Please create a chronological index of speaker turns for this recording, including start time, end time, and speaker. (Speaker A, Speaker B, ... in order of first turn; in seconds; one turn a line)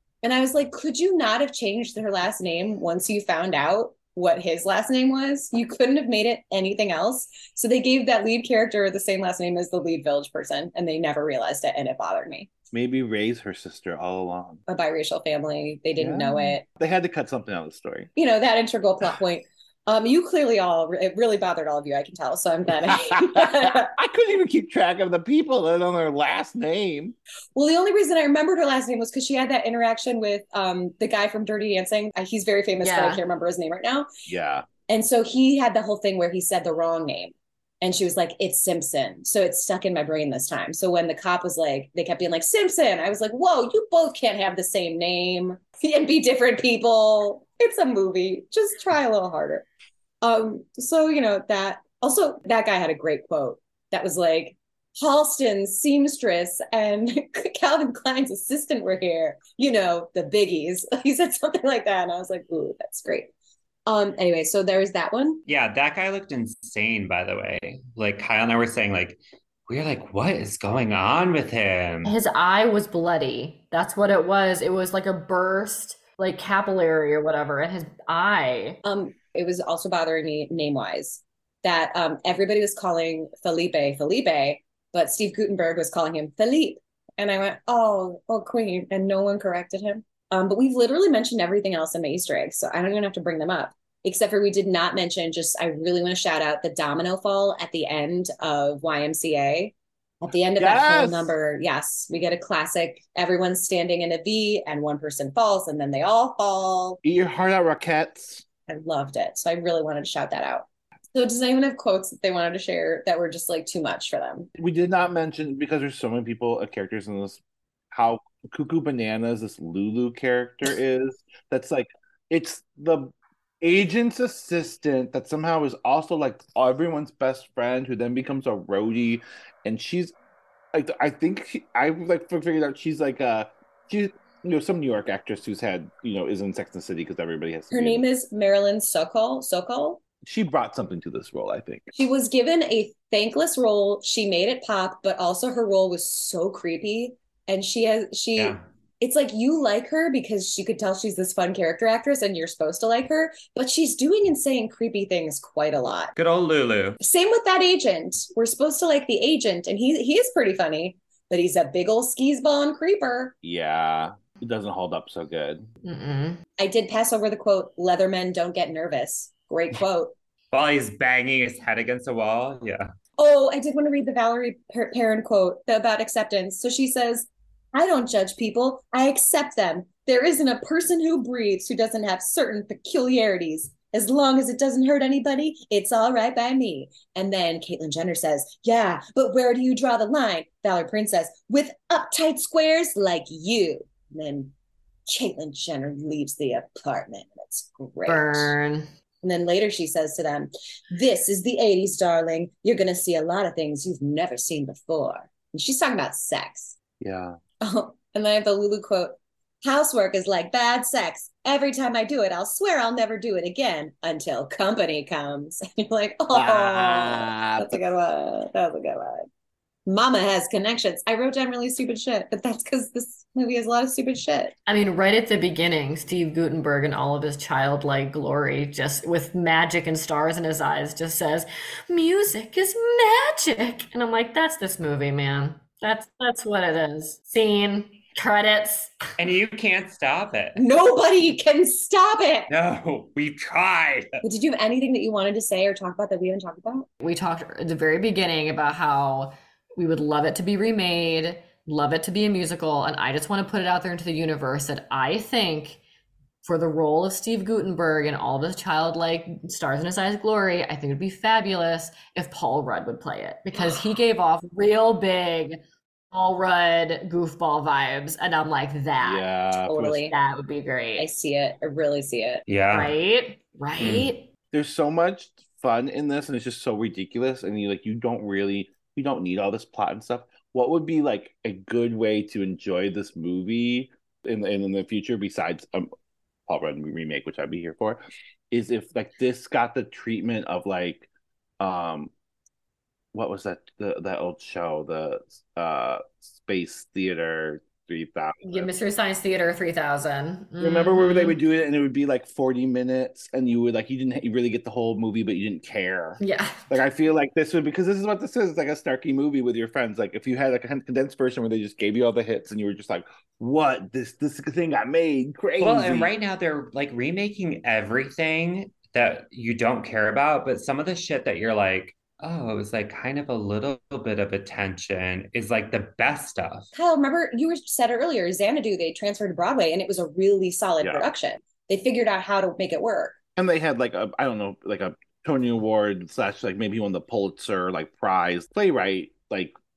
Speaker A: 0.2-12.5
Speaker B: 12.7-14.6
Speaker A: 14.7-16.6
Speaker B: 16.0-18.1
Speaker A: 18.1-23.9
Speaker B: 22.9-27.1
Speaker A: 27.6-34.1
Speaker C: 32.8-33.2
Speaker B: 34.3-34.7
Speaker A: 34.9-49.6
Speaker A: 50.2-63.3
Speaker A: 63.9-65.4
Speaker D: 65.5-72.2
Speaker C: 72.0-78.8
Speaker A: 78.8-107.0
Speaker B: 100.6-101.3
Speaker B: 107.0-108.4
Speaker A: 108.7-114.5
Speaker B: 114.6-117.4
Speaker B: 117.9-130.1
Speaker B: 130.7-138.0
Speaker A: 137.7-140.0
Speaker B: 140.2-141.9
Speaker A: 141.9-156.1
Speaker D: 148.3-148.6
Speaker D: 156.2-157.0
Speaker A: 157.0-163.3
Speaker B: 163.4-165.7
Speaker C: 165.8-166.4
Speaker A: 166.6-170.1
Speaker D: 170.5-172.9
Speaker A: 173.2-194.5
Speaker A: 195.1-198.5
Speaker C: 198.1-198.9
Speaker A: 199.2-206.8
Speaker B: 207.0-207.4
Speaker A: 207.6-219.2
Speaker B: 216.3-217.8
Speaker A: 219.9-224.5
Speaker C: 224.7-238.9
Speaker D: 239.2-240.6
Speaker A: 240.6-242.5
Speaker D: 242.5-244.1
Speaker A: 244.2-246.9
Speaker C: 247.0-255.8
Speaker C: 256.4-265.6
Speaker C: 266.1-269.2
Speaker B: 269.0-270.0
Speaker A: 269.7-270.1
Speaker C: 270.0-271.1
Speaker A: 271.0-272.4
Speaker D: 272.5-272.9
Speaker C: 272.7-274.3
Speaker D: 273.8-274.1
Speaker B: 274.5-285.9
Speaker B: 286.5-291.1
Speaker B: 291.6-292.1
Speaker B: 293.1-298.7
Speaker C: 298.4-301.4
Speaker B: 300.6-316.1
Speaker C: 306.2-306.7
Speaker D: 315.6-326.7
Speaker A: 326.7-333.1
Speaker B: 330.8-331.1
Speaker B: 333.4-339.5